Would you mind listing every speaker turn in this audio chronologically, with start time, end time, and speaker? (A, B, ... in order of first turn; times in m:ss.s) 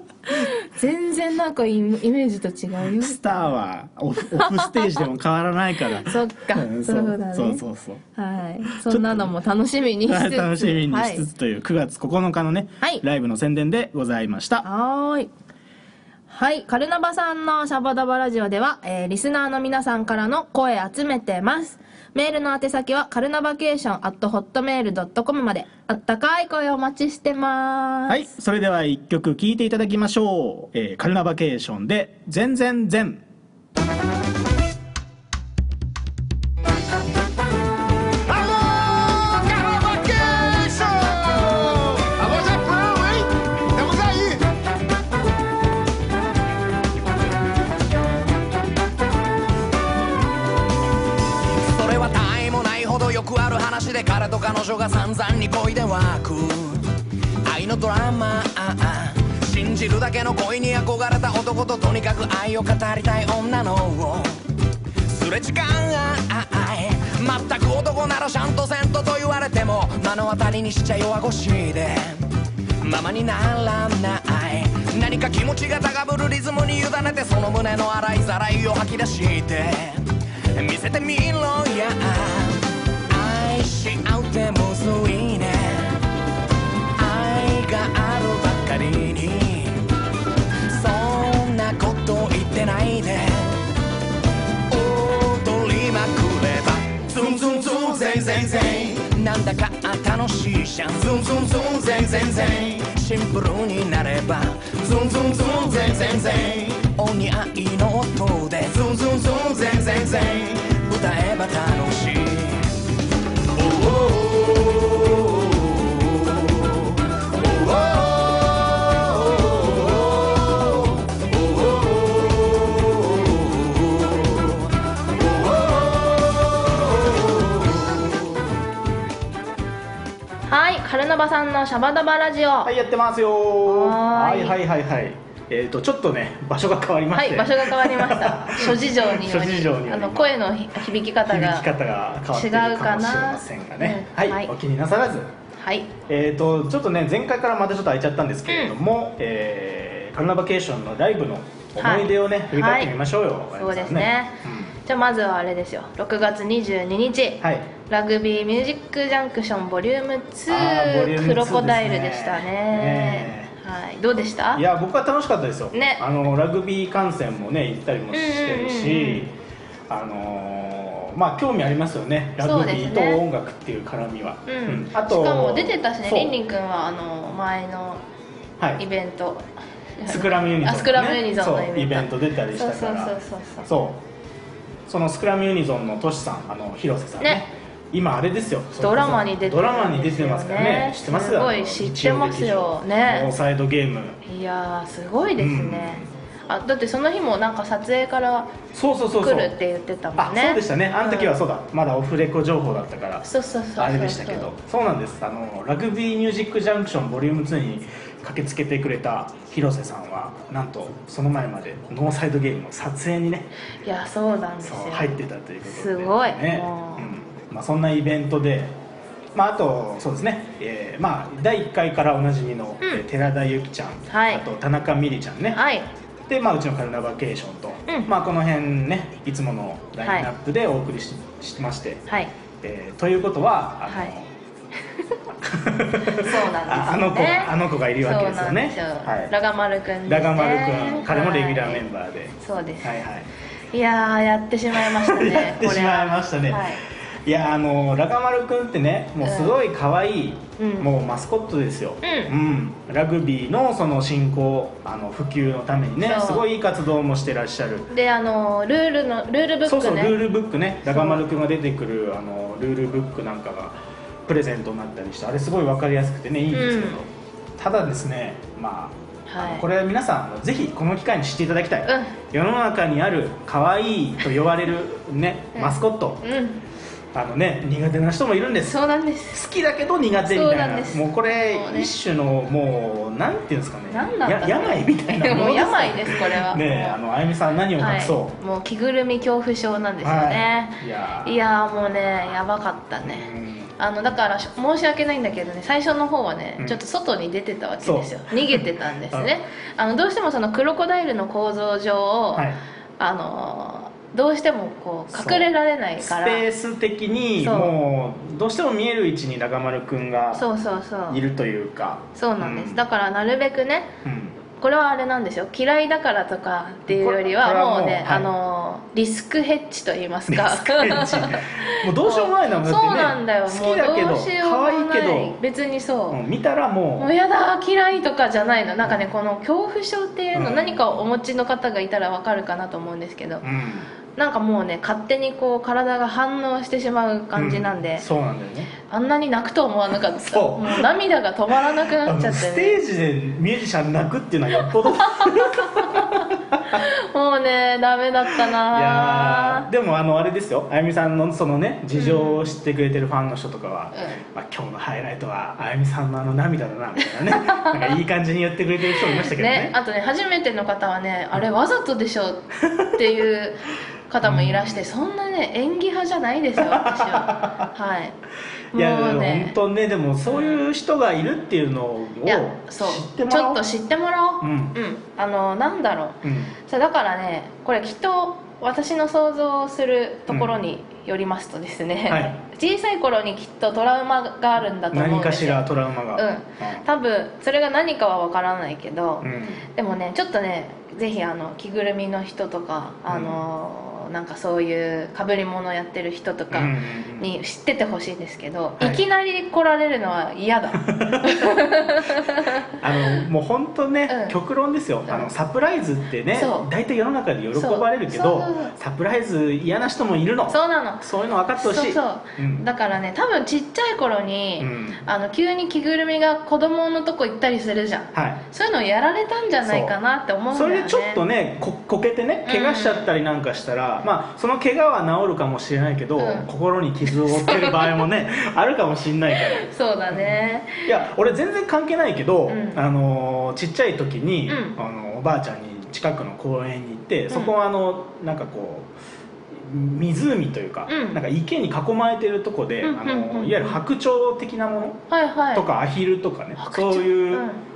0:00.3-0:03.2 A
0:02.8-0:08.0 B
0:04.4-0:05.0 A
0:06.0-0:07.6 A
0:08.2-0:11.3 A
0:08.7-0:09.3 B
0:10.1-0:14.6 B
0:14.6-0:15.3 A
0:16.3-0:28.2 A
0:28.1-0:33.2 B
0:38.3-0:44.5 C
0:51.4-0:56.9 D
0:57.4-1:04.4 D
1:05.0-1:26.0 D
1:27.0-1:29.9 D
1:30.7-1:33.6 D
1:34.7-1:52.8 D
1:53.5-2:04.5 D
2:05.2-2:06.5 D
2:10.5-2:12.7 A
2:12.6-2:20.4 B
2:13.6-2:14.6 A
2:17.1-2:21.7 A
2:21.2-2:25.3 B
2:22.3-2:24.5 A
2:25.6-2:25.9 A
2:26.1-2:34.7 B
2:28.5-2:28.7 A
2:31.8-2:32.9 A
2:33.5-2:44.6 A
2:37.4-2:37.7 B
2:40.5-2:43.5 B
2:44.5-2:49.3 B
2:45.7-2:46.0 A
2:48.1-2:49.3 A
2:49.9-2:56.4 B
2:52.4-2:53.2 A
2:54.5-2:58.0 A
2:58.8-3:03.7 A
3:00.1-3:04.0 B
3:04.9-3:14.2 B
3:08.8-3:13.3 A
3:14.2-3:18.6 A
3:15.4-3:16.0 B
3:18.7-3:19.5 B
3:19.2-3:21.4 A
3:20.2-3:33.5 B
3:23.2-3:24.5 A
3:33.8-3:37.1 A
3:34.6-3:38.8 B
3:39.3-3:45.6 B
3:44.1-3:44.4 A
3:45.5-3:45.9 A
3:46.3-3:52.0 B
3:50.0-3:50.3 A
3:52.1-3:52.3 A
3:52.6-3:54.3 B
3:53.9-3:54.1 A
3:55.4-3:59.3 B
3:56.1-4:01.8 A
4:00.0-4:03.3 B
4:02.4-4:03.0 A
4:03.7-4:06.8 A
4:04.7-4:17.9 B
4:09.2-4:09.6 A
4:10.6-4:10.9 A
4:12.0-4:12.3 A
4:16.0-4:16.5 A
4:17.9-4:20.2 A
4:19.6-4:36.2 B
4:20.8-4:21.2 A
4:26.5-4:27.0 A
4:29.3-4:29.6 A
4:31.9-4:32.1 A
4:35.5-4:36.6 A
4:37.1-4:38.8 B
4:38.6-4:39.4 A
4:39.3-4:48.4 B
4:40.3-4:41.9 A
4:43.9-4:47.0 A
4:47.8-5:06.4 A
4:50.0-4:51.4 B
4:53.0-4:53.7 B
4:57.8-4:59.3 B
5:05.1-5:10.5 B
5:07.4-5:07.7 A
5:10.3-5:11.2 A
5:11.1-5:12.8 B
5:12.1-5:13.9 A
5:14.0-5:14.4 B
5:14.5-5:26.2 A
5:16.9-5:18.3 B
5:20.3-5:25.4 B
5:26.1-5:27.1 B
5:27.0-5:33.4 A
5:30.3-5:30.9 B
5:33.4-5:33.9 B
5:34.2-5:38.0 A
5:37.3-5:38.7 B
5:38.9-5:42.8 A
5:40.2-5:40.9 B
5:41.7-5:46.8 B
5:45.1-5:49.7 A
5:48.4-5:59.7 B
5:51.9-5:52.5 A
5:53.9-5:54.2 A
5:57.3-5:57.9 A
5:59.1-6:08.2 A
6:04.2-6:04.8 B
6:06.6-6:07.6 B
6:08.7-6:09.5 A
6:08.7-6:13.6 B
6:10.2-6:10.6 A
6:12.2-6:43.2 A
6:14.4-6:14.7 B
6:16.2-6:16.5 B
6:20.3-6:20.6 B
6:22.1-6:22.4 B
6:24.9-6:26.8 B
6:29.2-6:29.6 B
6:33.1-6:33.4 B
6:36.5-6:37.3 B
6:40.8-6:41.6 B
6:42.2-6:52.6 B
6:44.1-6:44.4 A
6:46.3-6:46.6 A
6:47.5-6:48.7 A
6:50.5-6:51.0 A
6:51.6-7:01.2 A
6:54.6-6:55.0 B
6:58.1-6:58.4 B
6:59.6-7:00.0 B
7:00.5-7:18.9 B
7:02.4-7:03.1 A
7:06.2-7:06.5 A
7:07.3-7:07.9 A
7:09.4-7:10.9 A
7:12.5-7:12.8 A
7:14.5-7:14.8 A
7:19.5-7:25.0 B
7:20.9-7:21.2 A
7:22.8-7:23.8 A
7:25.1-7:25.7 A
7:25.5-7:27.5 B
7:26.6-7:27.6 A